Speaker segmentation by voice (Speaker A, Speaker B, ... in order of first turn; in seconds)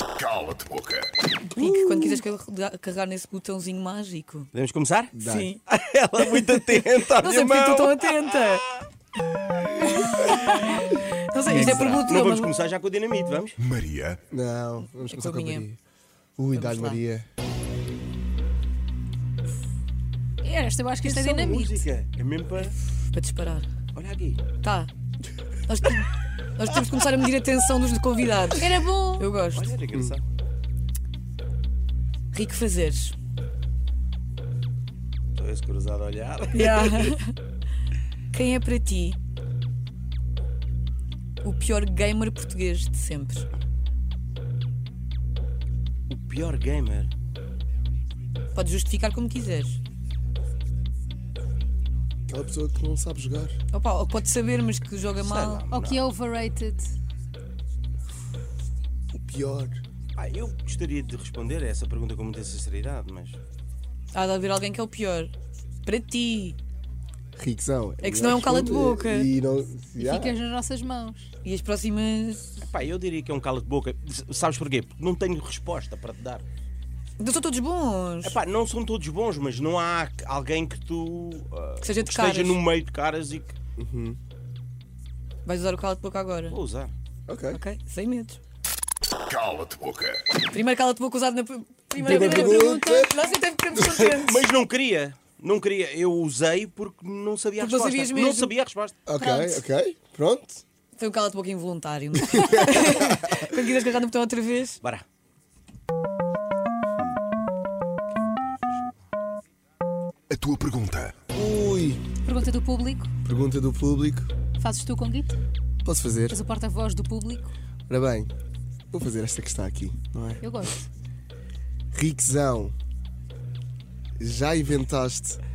Speaker A: 0.2-1.1, 13.6-14.2, 89.3-90.2, 110.3-111.2
Speaker B: 1.6-4.5, 5.2-5.6, 6.4-8.8, 9.9-12.5, 14.9-15.7, 16.5-17.0, 23.1-23.7, 24.6-24.9, 25.7-29.7, 32.3-33.1, 36.5-37.4, 38.3-39.2, 41.4-43.5, 48.5-49.8, 53.7-55.6, 64.1-65.3, 65.8-66.6, 68.0-69.3, 71.4-72.6, 77.2-78.4, 81.8-82.6, 85.5-86.6, 87.5-88.4, 90.5-94.5, 97.6-98.5, 101.0-104.8
Speaker C: 1.6-2.2, 5.1-5.5, 11.7-11.9, 14.3-15.8, 16.4-17.3, 52.3-53.5, 59.1-59.8, 67.4-70.4, 83.8-84.2, 87.3-87.6, 92.0-93.2, 99.1-100.6, 102.2-103.4, 111.3-112.0, 113.2-114.3, 115.8-116.4, 117.9-118.3, 118.9-120.5, 121.9-122.8, 124.2-125.4
Speaker D: 4.5-5.2, 5.7-8.4, 11.4-13.6, 21.0-22.8, 23.9-24.4, 29.5-30.2, 35.4-37.1, 46.1-47.1, 55.2-56.1, 60.1-63.4, 72.6-76.4, 78.2-83.5, 86.5-86.9, 93.8-99.0, 108.3-108.9
Speaker E: 20.4-21.9, 28.6-29.3, 55.7-56.9, 70.0-71.3, 92.1-93.2, 99.2-99.6, 112.2-113.1, 114.6-115.4, 116.3-117.5, 120.4-120.8